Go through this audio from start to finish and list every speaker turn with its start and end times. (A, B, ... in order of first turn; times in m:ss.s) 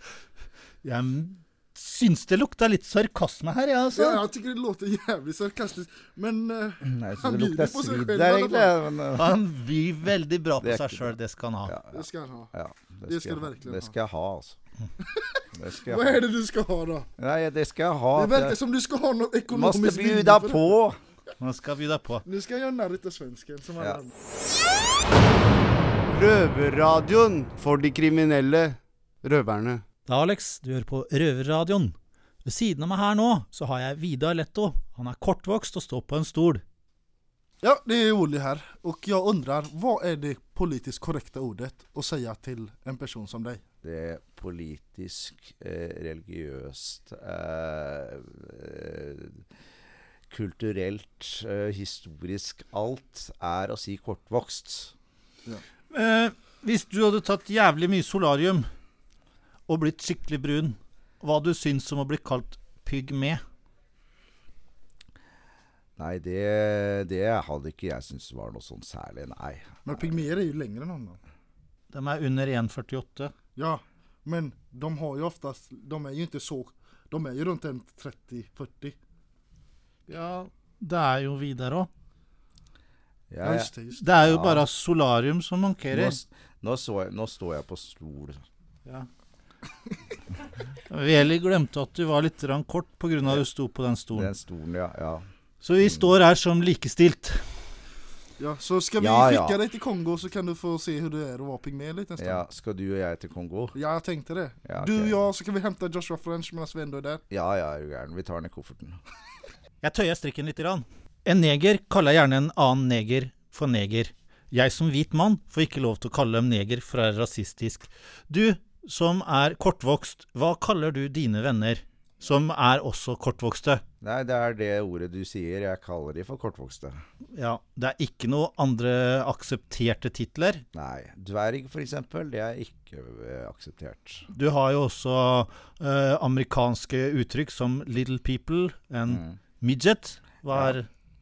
0:00.8-0:04.2 A
0:04.0-0:08.7 B
0:06.8-0:09.4 C
0:09.2-0:11.7 A
0:10.6-0:11.1 C
0:11.6-0:14.6 C
0:11.9-0:12.5 B
0:13.1-0:13.9 B
0:15.5-0:16.2 C
0:15.8-0:17.1 B
0:17.2-0:18.6 C
0:18.1-0:20.7 B
0:19.5-0:21.0 C
0:21.4-0:22.2 A
0:22.2-0:24.1 B
0:26.1-0:29.8 D
0:30.1-0:36.6 A
0:37.6-0:43.6 B
0:43.8-0:49.4 C
0:50.3-0:54.9 C
0:55.9-0:58.7 A
0:59.7-1:03.4 A
1:06.0-1:09.8 C
1:09.8-1:11.2 B
1:11.9-1:13.3 A
1:13.6-1:19.0 B
1:20.1-1:21.9 A
1:23.3-1:24.7 C
1:23.4-1:24.2 B
1:24.0-1:26.2 A
1:25.9-1:28.4 C
1:30.9-1:34.3 A
1:34.1-1:35.2 C
1:35.6-1:37.5 A
1:38.4-1:42.4 B
1:39.0-1:39.6 C
1:42.2-1:43.8 C
1:43.7-1:47.2 B
1:44.6-1:45.1 C
1:47.3-1:49.0 C
1:49.8-2:03.8 A
2:04.0-2:07.0 C
2:07.3-2:10.6 A
2:10.7-2:14.2 C
2:14.3-2:20.9 A
2:19.1-2:19.4 C
2:20.5-2:20.8 C